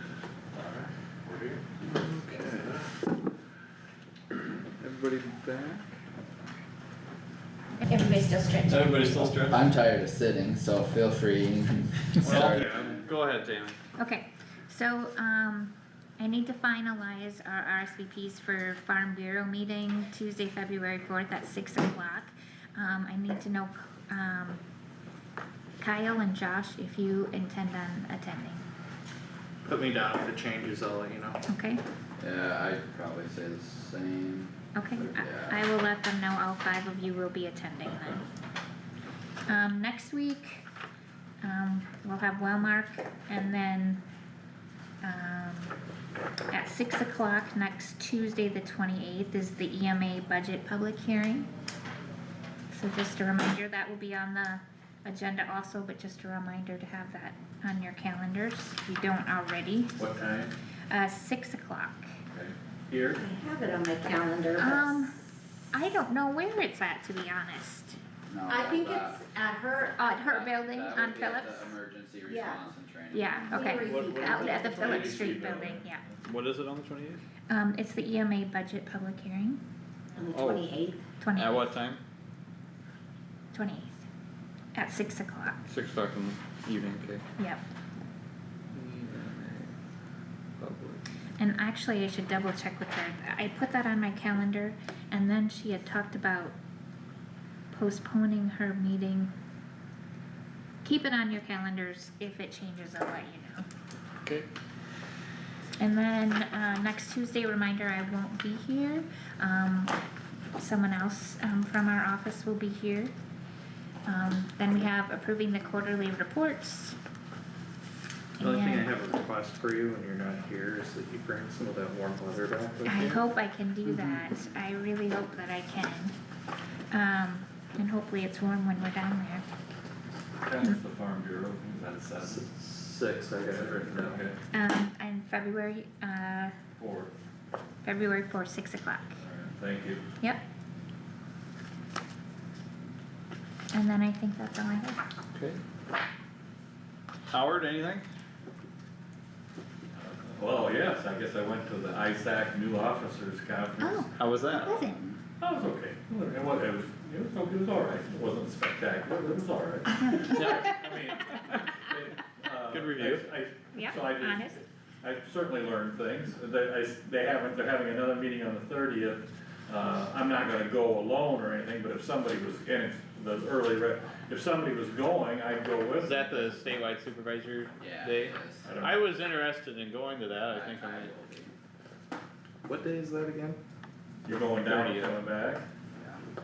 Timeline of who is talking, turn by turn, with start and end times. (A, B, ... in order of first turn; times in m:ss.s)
0:00.5-0:02.8 A
0:01.9-0:02.7 B
0:04.8-0:05.9 B
0:07.8-0:08.8 C
0:08.6-0:09.6 B
0:09.5-0:13.1 D
0:12.2-0:13.8 B
0:14.0-0:24.6 C
0:25.8-0:28.6 C
0:29.6-0:31.4 E
0:31.5-0:31.8 C
0:32.2-0:35.6 D
0:34.7-0:38.2 C
0:39.5-0:40.6 C
0:41.4-0:44.0 C
0:45.0-0:45.7 C
0:46.5-0:51.5 C
0:52.7-1:00.0 C
1:00.0-1:00.5 A
1:00.9-1:02.1 C
1:02.3-1:03.2 A
1:03.1-1:04.9 F
1:04.6-1:05.2 C
1:05.7-1:08.0 C
1:08.3-1:09.2 D
1:08.5-1:10.2 F
1:10.0-1:11.7 C
1:10.2-1:13.8 D
1:12.3-1:12.6 F
1:13.1-1:16.0 C
1:13.5-1:15.5 F
1:13.8-1:16.2 A
1:16.2-1:17.2 B
1:17.5-1:19.6 C
1:20.2-1:21.0 F
1:20.3-1:20.7 B
1:21.2-1:21.7 C
1:21.3-1:22.0 B
1:23.5-1:24.0 C
1:24.8-1:25.6 C
1:25.7-1:27.2 B
1:28.7-1:29.7 B
1:30.6-1:31.0 B
1:31.4-1:36.5 C
1:37.7-1:39.3 C
1:40.8-1:43.6 C
1:45.8-1:49.9 C
1:50.6-1:53.1 C
1:54.0-1:57.0 C
1:58.4-1:58.9 C
1:58.4-2:03.2 E
2:02.8-2:06.1 C
2:06.9-2:09.4 C
2:10.4-2:12.4 A
2:12.2-2:14.2 E
2:13.5-2:14.4 A
2:14.5-2:16.6 C
2:16.8-2:17.1 A
2:17.8-2:19.2 C
2:19.2-2:20.0 A
2:23.7-2:25.0 C
2:25.3-2:25.6 B
2:27.3-2:28.0 B
2:29.9-2:34.2 A
2:33.8-2:34.1 C
2:34.2-2:34.8 B
2:34.6-2:35.0 C
2:35.4-2:56.2 A
2:40.2-2:40.7 B
2:41.3-2:41.8 B
2:42.7-2:43.3 B
2:43.7-2:44.6 C
2:56.0-3:01.1 B
2:57.8-2:58.6 D
2:58.6-2:59.0 A
3:00.5-3:01.5 D
3:02.6-3:03.6 E
3:04.2-3:05.6 A
3:04.5-3:05.1 B